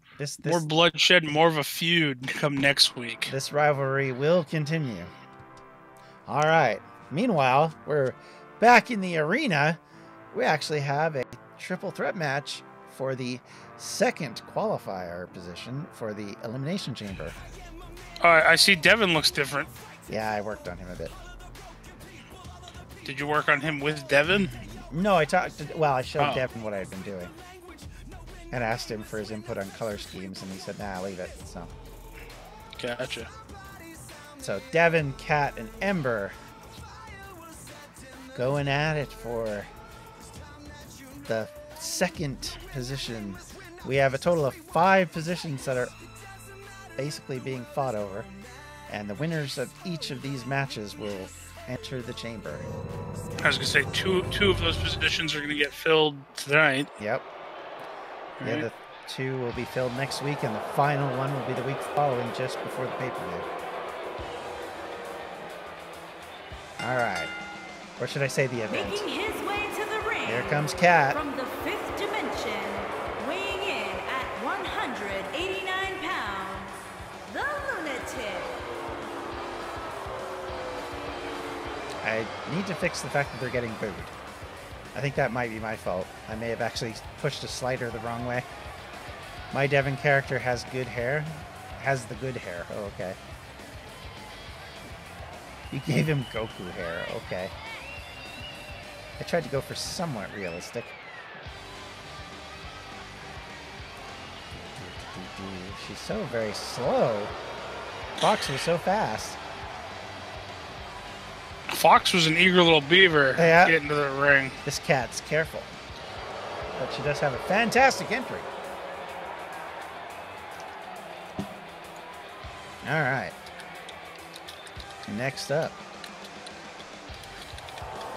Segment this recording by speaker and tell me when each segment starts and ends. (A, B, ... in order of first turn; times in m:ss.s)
0:00.2-0:00.6 A
0:00.4-0:03.3 B
0:03.3-0:05.1 A
0:06.3-0:09.8 A
0:10.3-0:17.4 A
0:18.2-0:19.7 B
0:20.1-0:21.1 A
0:23.0-0:24.5 B
0:24.6-0:27.3 A
0:26.2-0:26.4 B
0:28.5-0:31.7 A
0:32.8-0:33.3 B
0:34.4-0:36.4 A
0:38.3-0:39.7 A
0:41.2-0:45.9 A
0:47.0-0:48.3 A
0:48.9-0:52.6 A
0:53.4-0:56.9 B
0:57.0-0:57.2 A
0:58.4-0:58.6 B
0:58.4-1:03.5 A
1:06.8-1:07.3 A
1:08.0-1:09.0 A
1:08.7-1:16.8 C
1:10.2-1:11.2 A
1:17.3-1:18.7 C
1:22.0-1:24.1 A
1:24.9-1:28.5 A
1:29.5-1:33.2 A
1:35.7-1:37.5 A
1:39.2-1:40.9 A
1:44.8-1:47.3 A
1:48.2-1:49.4 A
1:51.7-1:54.6 B
1:53.4-1:53.8 A
1:54.6-1:55.7 A
1:56.7-1:58.5 A
2:02.8-2:03.4 A
2:05.0-2:05.8 A